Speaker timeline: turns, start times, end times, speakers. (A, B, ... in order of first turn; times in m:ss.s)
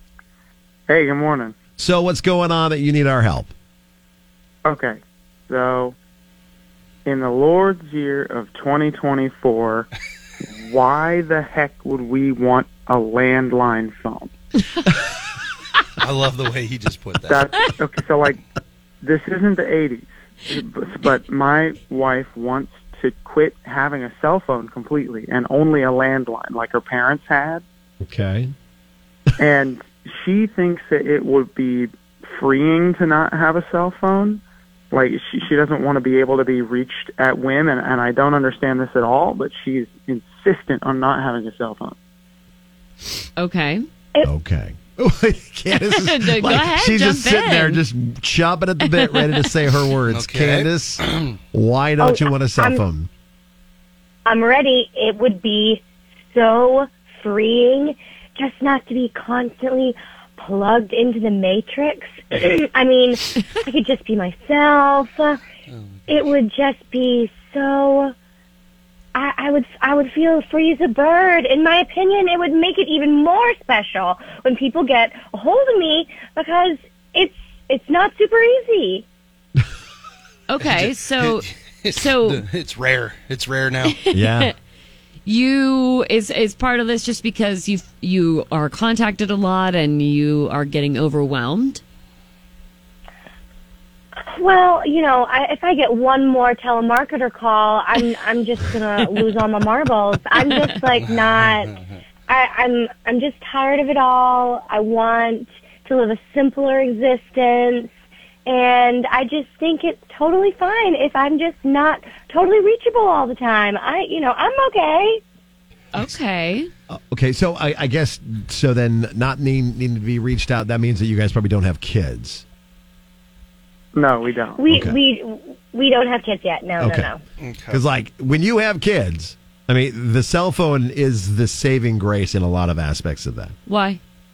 0:00.9-0:01.5 A
0:01.8-0:03.5 B
0:04.6-0:05.0 A
0:05.5-0:06.0 A
0:07.0-0:09.9 A
0:10.5-0:14.3 A
0:16.0-0:17.5 C
0:17.3-0:18.4 A
0:19.0-0:27.6 A
0:28.0-0:28.5 B
0:29.4-0:42.0 A
0:43.4-0:43.8 D
0:44.2-0:53.1 B
0:45.7-0:47.8 D
0:48.8-0:49.5 D
0:50.1-0:51.3 C
0:52.0-0:52.8 E
0:54.3-1:05.4 E
1:05.7-1:06.2 C
1:06.1-1:08.1 E
1:09.2-1:19.0 E
1:20.5-1:22.4 D
1:20.6-1:24.0 C
1:24.0-1:24.5 D
1:24.1-1:24.5 B
1:25.2-1:31.8 D
1:34.3-1:41.8 E
1:41.0-1:42.0 C
1:42.3-1:47.9 E
1:48.5-1:55.2 E
1:55.9-1:56.7 D
1:56.9-2:02.4 B
2:03.9-2:04.6 A
2:04.6-2:07.2 E
2:04.7-2:05.0 B
2:06.8-2:07.1 B
2:07.4-2:07.8 C
2:07.7-2:13.6 B
2:13.7-2:14.0 D